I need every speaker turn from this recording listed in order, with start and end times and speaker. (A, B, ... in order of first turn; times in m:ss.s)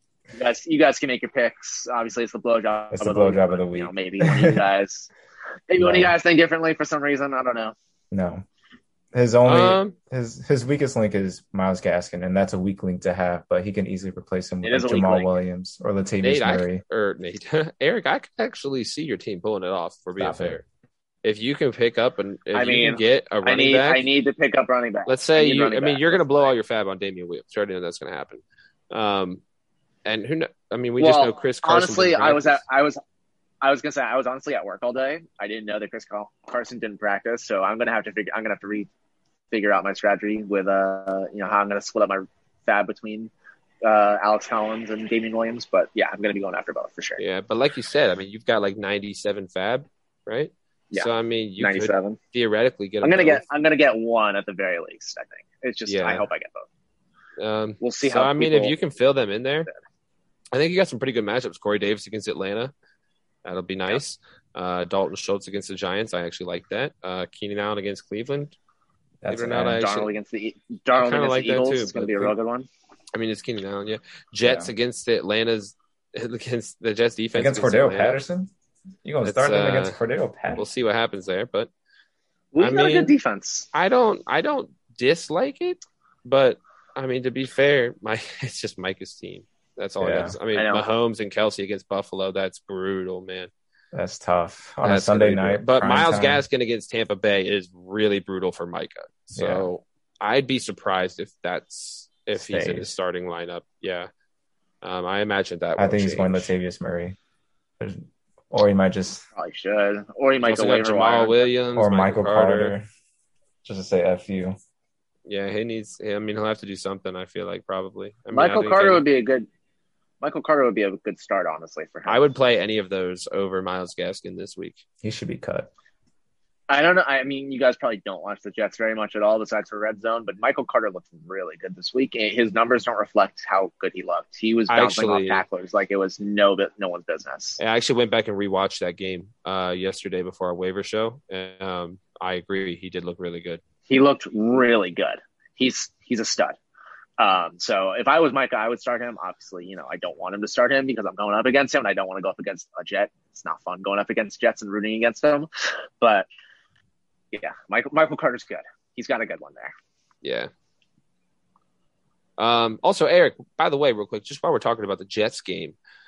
0:00.3-0:05.1 A
0:02.9-0:04.6 B
0:05.7-0:07.7 A
0:05.8-0:06.1 B
0:08.1-0:08.4 B
0:09.1-0:16.8 B
0:09.4-0:09.9 C
0:14.6-0:15.3 A
0:16.2-0:20.6 C
0:20.2-0:20.6 B
0:21.2-0:24.1 C
0:22.5-0:26.5 A
0:25.1-0:29.4 C
0:30.0-0:32.6 C
0:31.0-0:33.0 A
0:33.6-0:38.9 A
0:39.5-0:43.3 A
0:43.8-0:47.2 A
0:47.2-0:53.4 C
0:50.9-0:52.2 A
0:53.0-0:56.6 A
0:55.8-0:56.2 C
0:57.4-0:59.7 C
0:57.8-0:58.7 A
1:00.5-1:02.7 C
1:03.4-1:08.6 C
1:09.2-1:09.8 B
1:09.3-1:10.1 C
1:09.5-1:12.7 A
1:11.0-1:12.3 C
1:13.1-1:18.2 C
1:14.4-1:14.7 B
1:17.3-1:18.5 B
1:19.0-1:20.7 B
1:19.2-1:19.9 C
1:20.6-1:21.7 C
1:22.5-1:23.7 A
1:22.6-1:23.1 C
1:23.7-1:33.5 C
1:30.0-1:30.4 B
1:30.5-1:30.8 A
1:33.9-1:36.4 B
1:34.8-1:44.1 C
1:39.3-1:39.7 B
1:42.3-1:43.0 B
1:44.8-1:46.5 C
1:45.8-1:47.2 B
1:47.8-1:49.2 B
1:49.4-1:51.5 A
1:50.4-1:52.7 C
1:51.7-1:52.8 B
1:53.6-1:54.6 B
1:55.2-1:59.0 C
1:58.3-1:59.5 A
2:00.2-2:02.2 A
2:02.1-2:04.8 C
2:05.0-2:05.7 B
2:06.7-2:17.6 A
2:14.7-2:15.4 C
2:17.6-2:23.6 C
2:23.9-2:26.6 A
2:27.2-2:35.5 A
2:36.0-2:36.3 A
2:37.3-2:39.7 A
2:40.2-2:40.5 C
2:42.4-2:45.8 C